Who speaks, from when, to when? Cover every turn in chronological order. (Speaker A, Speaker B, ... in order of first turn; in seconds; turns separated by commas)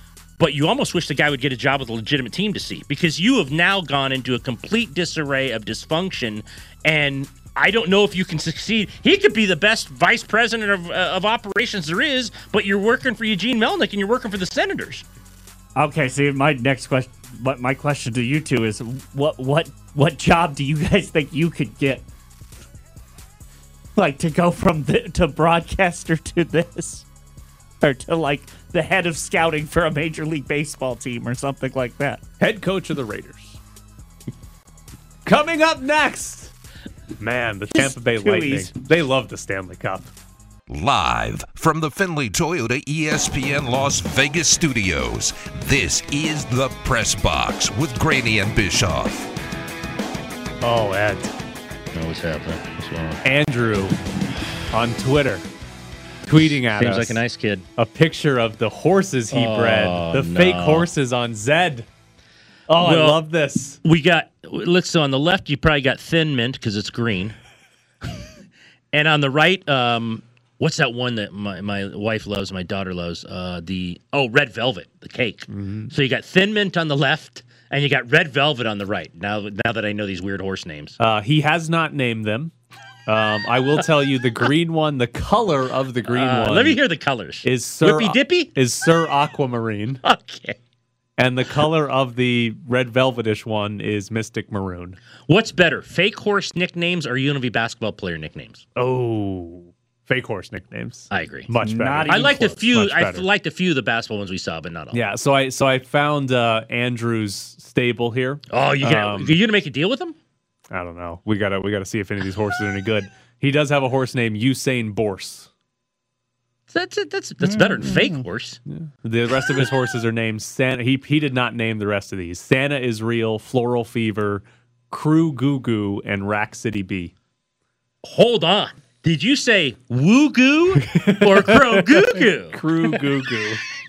Speaker A: 0.4-15.1, Speaker B: 15.8-22.1, Speaker B: 24.0-27.1, Speaker B: 27.8-32.2, Speaker C: 32.4-33.6, Speaker C: 35.2-36.5, Speaker C: 37.2-40.1, Speaker B: 37.8-38.7, Speaker D: 40.7-49.3, Speaker C: 50.6-51.3, Speaker A: 51.9-53.2, Speaker C: 53.2-54.0, Speaker C: 54.7-55.5, Speaker C: 56.2-57.2, Speaker A: 56.3-57.6, Speaker C: 57.8-61.9, Speaker A: 59.3-60.9, Speaker C: 62.7-63.8, Speaker A: 62.8-63.2, Speaker A: 63.8-67.4, Speaker A: 68.9-81.0, Speaker C: 75.5-75.9, Speaker C: 81.0-82.5, Speaker C: 83.1-86.8, Speaker A: 86.1-88.5, Speaker C: 87.4-90.0, Speaker A: 90.0-90.6, Speaker C: 91.2-95.0, Speaker A: 95.3-98.7, Speaker C: 98.8-103.3, Speaker A: 101.1-101.5, Speaker B: 101.6-102.4, Speaker A: 102.1-105.0, Speaker C: 104.9-109.4, Speaker A: 108.5-110.2, Speaker C: 110.7-115.5, Speaker A: 116.7-118.6, Speaker B: 117.5-118.2, Speaker C: 118.7-127.1, Speaker A: 128.0-132.6, Speaker C: 130.8-133.6